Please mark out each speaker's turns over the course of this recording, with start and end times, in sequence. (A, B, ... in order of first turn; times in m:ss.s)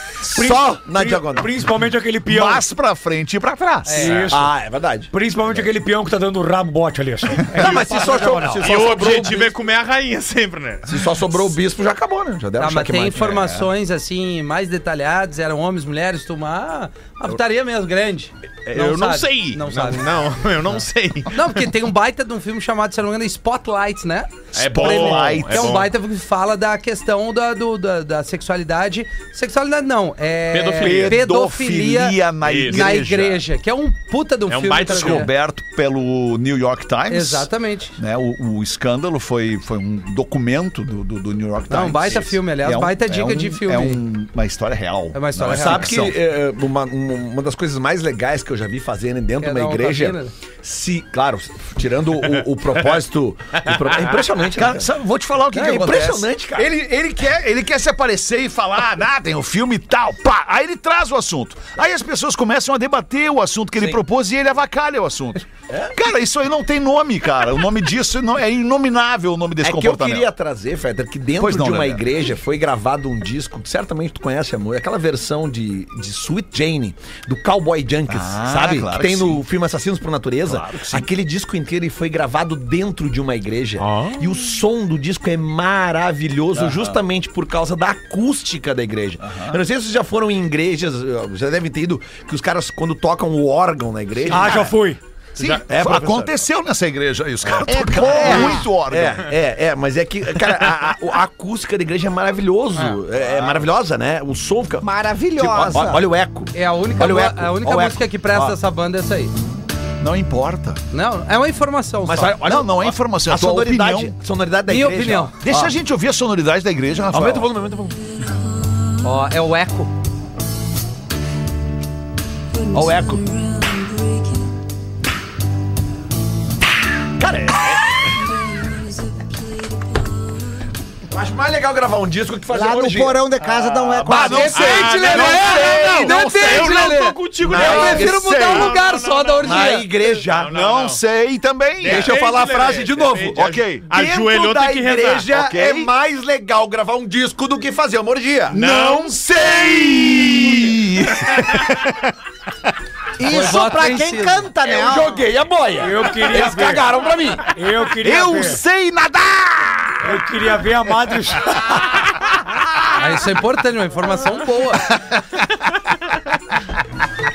0:00.2-0:01.5 A
0:00.2-0:02.6 B
0:02.2-0:04.2 C
0:03.9-0:04.3 D
0:03.9-0:04.5 B
0:04.0-0:04.3 E
0:04.3-0:05.7 A
0:05.1-0:09.1 B
0:07.5-0:09.5 A
0:08.6-0:11.0 E
0:10.9-0:13.3 A
0:12.6-0:20.0 D
0:13.2-0:13.6 C
0:18.7-0:21.6 E
0:21.3-0:35.3 D
0:24.5-0:25.9 E
0:24.6-0:25.9 C
0:30.5-0:31.2 E
0:30.8-0:33.4 C
0:32.4-0:32.9 E
0:34.5-0:35.3 E
0:34.8-0:46.2 C
0:37.1-0:38.0 D
0:41.7-0:44.0 D
0:45.1-0:46.0 D
0:45.4-0:54.9 A
0:49.4-0:50.3 D
0:53.7-0:54.2 E
0:54.6-1:10.3 C
0:55.5-0:56.7 A
1:05.7-1:05.9 A
1:09.6-1:34.8 A
1:11.4-1:12.1 C
1:18.1-1:19.4 C
1:20.4-1:21.1 C
1:23.8-1:24.2 E
1:26.6-1:27.0 C
1:29.2-1:29.6 C
1:34.3-1:35.0 B
1:35.4-1:35.6 E
1:35.4-1:39.3 C
1:35.7-1:36.3 A
1:37.4-1:48.6 A
1:37.6-1:38.7 F
1:44.8-1:46.0 F
1:46.5-1:49.3 D
1:50.0-1:50.8 C
1:50.9-1:52.4 D
1:52.0-1:55.8 A
1:52.4-1:54.2 C
1:54.7-1:55.3 D
1:55.4-1:57.5 C
1:57.1-1:58.0 A
1:59.0-1:59.9 D
2:02.7-2:03.4 A
2:07.2-2:07.8 C
2:07.4-2:07.8 A
2:11.1-2:13.2 A
2:12.5-2:14.9 F
2:13.9-2:16.2 C
2:14.0-2:16.7 A
2:14.2-2:19.9 D
2:14.5-2:21.0 E
2:17.4-2:18.3 A
2:17.5-2:18.7 C
2:19.4-2:20.5 A
2:20.4-2:22.1 C
2:21.8-2:25.3 E
2:21.8-2:28.6 A
2:23.4-2:23.9 C
2:25.3-2:25.9 C
2:28.5-2:32.1 C
2:28.5-2:29.2 E
2:29.8-2:30.7 A
2:33.2-2:35.3 F
2:33.2-2:34.5 D
2:34.6-2:37.5 A
2:35.8-2:36.9 B
2:37.5-2:38.6 B
2:38.0-2:40.2 C
2:40.0-2:41.7 B
2:41.5-2:43.0 C
2:42.9-2:44.9 D
2:44.9-2:45.4 C